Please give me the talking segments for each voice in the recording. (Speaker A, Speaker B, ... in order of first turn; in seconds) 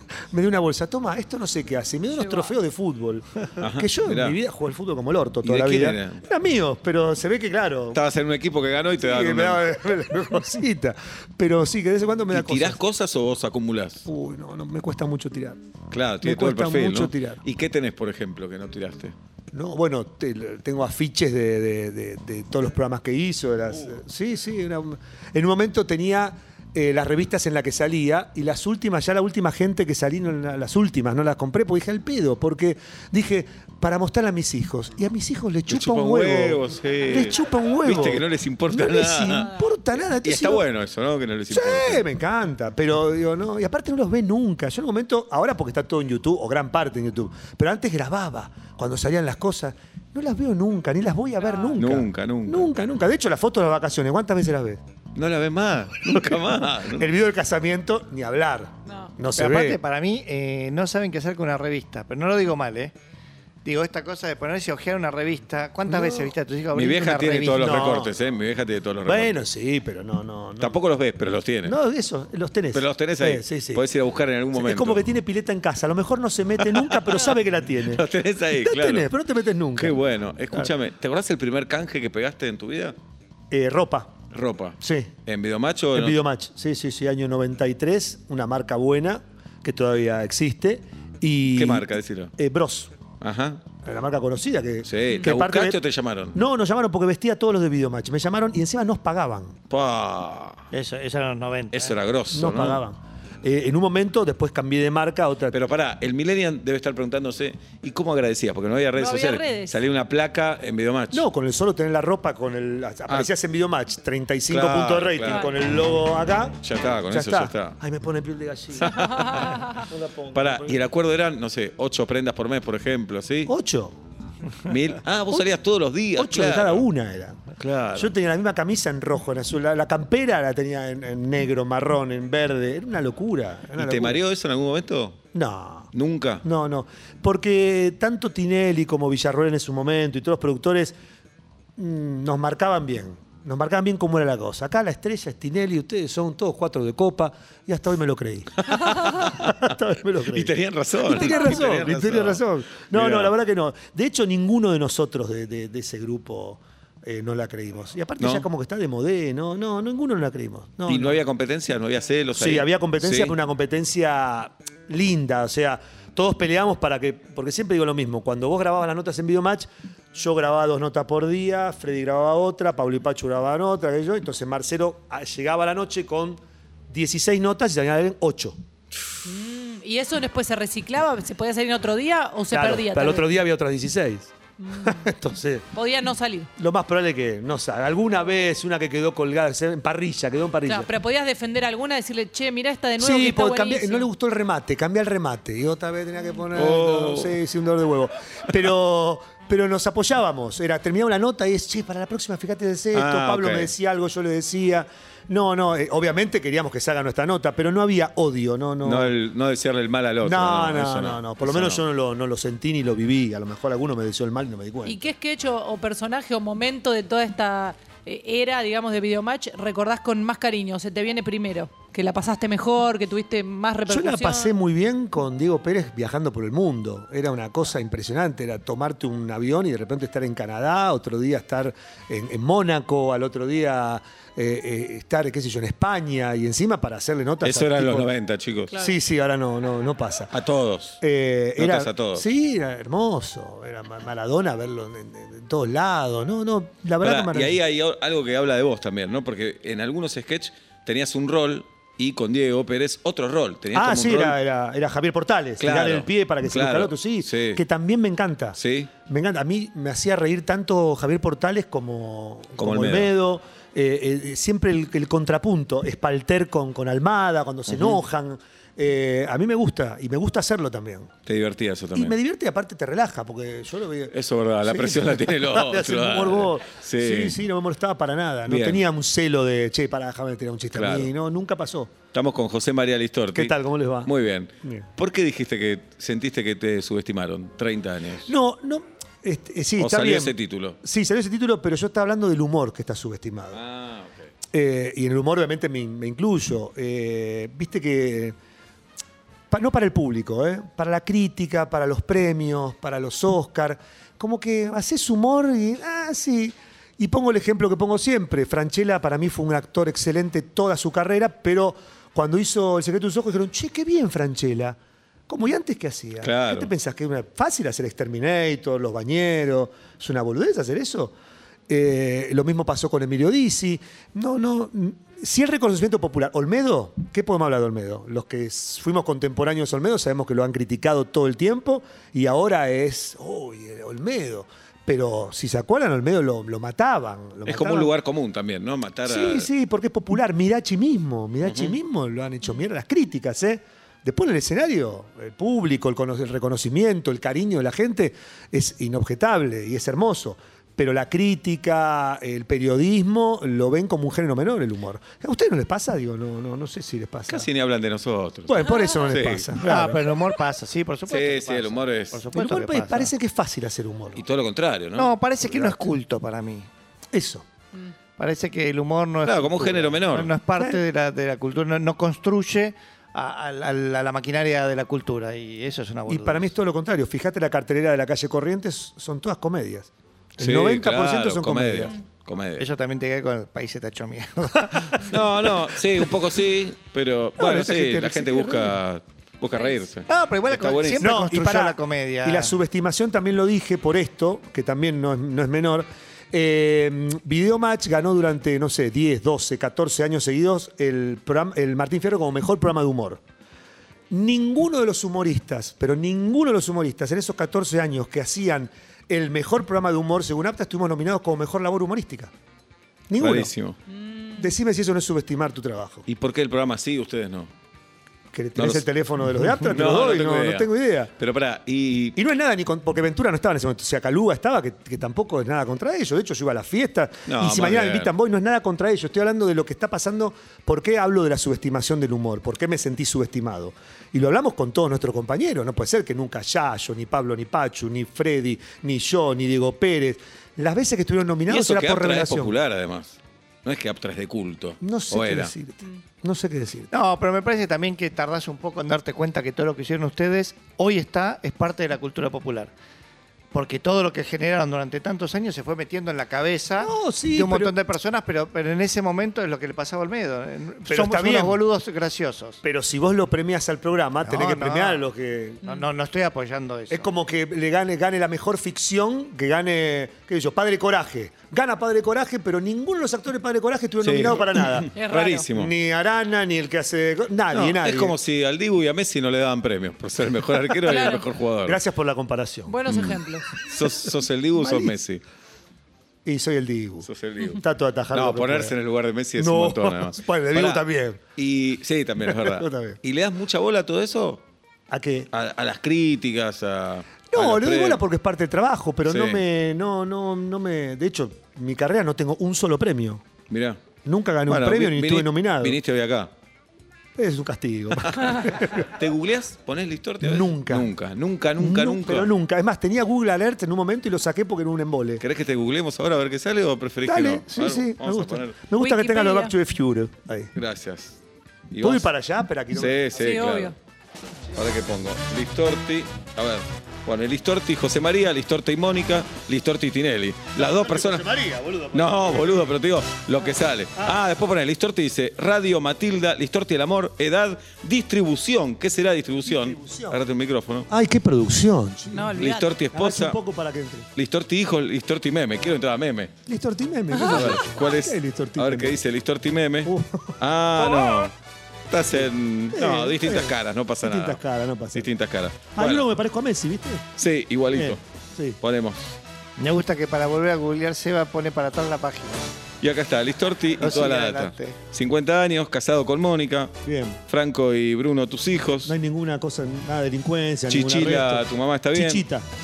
Speaker A: 0.3-8.0, 9.0-12.8, 14.0-15.6, 16.2-17.4, 19.5-40.6, 41.5-54.8, 56.9-59.8, 65.8-66.3, 67.6-68.1, 69.0-70.8, 71.6-73.8, 74.5-78.0, 78.6-80.0, 83.5-84.1, 84.8-85.1, 85.9-92.9, 93.8-95.8, 96.3-99.6, 102.3-105.6, 111.1-116.6, 117.1-120.8, 123.5-124.0, 126.2-134.2, 135.3-135.9, 136.4-140.9, 141.8-161.2, 162.3-176.4, 176.9-178.6, 182.5-185.7, 186.6-190.9, 193.0-209.1, 210.2-215.0, 223.9-238.1, 238.8-240.3, 241.0-247.6, 253.7-271.1, 271.9-281.9, 283.3-284.9, 288.2-293.6, 294.5-298.3, 299.5-314.8, 315.3-321.1, 321.7-337.9, 339.1-357.5, 358.5-360.0, 362.3-364.2, 367.1-367.4, 376.1-381.9, 384.4-385.1, 387.4-388.8, 391.0-403.2, 404.1-412.3, 413.1-413.5, 414.4-416.0, 418.3-421.1, 422.1-442.5, 444.8-446.9, 456.8-457.7, 460.9-461.6, 462.6-465.6, 466.9-474.9, 475.5-478.1, 481.6-482.8, 484.6-484.9, 486.2-488.8, 489.4-491.2, 492.3-493.0, 494.9-495.3, 497.3-503.2, 504.0-505.8, 507.1-508.9, 510.2-510.9, 511.6-515.2, 517.0-520.5, 521.8-523.4, 530.5-532.7, 539.5-540.2, 540.9-542.4, 542.9-544.1, 546.5-549.0, 549.8-551.3, 552.7-555.1, 555.7-557.0, 557.7-558.6, 566.8-567.2, 568.9-572.5
Speaker B: 2.1-2.5, 58.9-59.1, 109.0-109.8, 118.9-119.8, 151.2-151.5, 179.2-183.3, 184.6-185.1, 185.7-186.5, 190.6-194.1, 214.8-224.5, 414.1-414.4, 474.9-475.5, 480.8-481.2, 482.7-483.4, 518.8-519.5, 523.1-523.7, 542.1-542.7
Speaker C: 3.6-4.4, 5.4-6.2, 7.9-9.7, 12.3-14.0, 15.9-19.1, 35.7-42.0, 51.7-52.7, 55.1-57.1, 66.7-69.4, 70.6-71.8, 72.7-75.0, 76.6-79.1, 79.7-83.0, 84.3-86.2, 91.5-92.3, 93.2-93.6, 94.8-96.4, 99.7-100.6, 101.7-102.8, 105.5-111.2, 114.5-115.5, 116.6-117.8, 118.7-119.8, 120.3-123.5, 124.6-126.8, 127.6-128.1, 133.7-135.2, 135.9-136.4, 148.7-149.6, 150.3-153.3, 158.2-158.4, 160.8-163.3, 196.5-197.3, 202.9-203.7, 208.8-211.8, 237.4-238.7, 240.3-241.0, 241.6-242.2, 247.0-254.4, 255.6-257.6, 258.5-258.9, 262.6-263.1, 267.7-268.0, 271.2-272.1, 274.1-277.4, 278.5-278.8, 280.7-281.1, 282.1-288.3, 289.8-290.8, 293.5-294.3, 316.2-316.7, 337.4-339.5, 341.4-341.8, 357.3-359.5, 361.1-362.2, 364.1-365.1, 369.2-370.3, 380.4-382.7, 385.0-391.2, 413.2-413.8, 416.1-417.5, 418.6-418.9, 419.4-422.2, 427.3-428.1, 441.5-445.5, 474.0-475.7, 477.5-481.8, 482.9-485.2, 487.0-490.8, 491.4-494.4, 495.3-498.0, 499.1-499.4, 503.5-503.8, 504.4-506.3, 508.0-512.3, 515.2-518.6, 520.5-521.2, 521.7-522.1, 522.7-523.7, 524.5-531.2, 531.9-540.9, 542.4-543.4, 544.1-546.4, 547.2-551.3, 551.9-554.4, 554.9-556.0, 557.2-558.0, 558.6-559.2, 562.8-566.7, 567.3-568.9, 570.7-572.2
Speaker D: 59.4-62.9, 63.6-67.8, 100.7-102.0, 359.6-363.1, 364.9-366.7, 368.2-376.5, 382.6-385.1, 390.1-392.5, 446.9-452.7, 453.5-462.6, 464.2-465.0, 465.6-467.1, 559.6-562.5, 563.8-564.8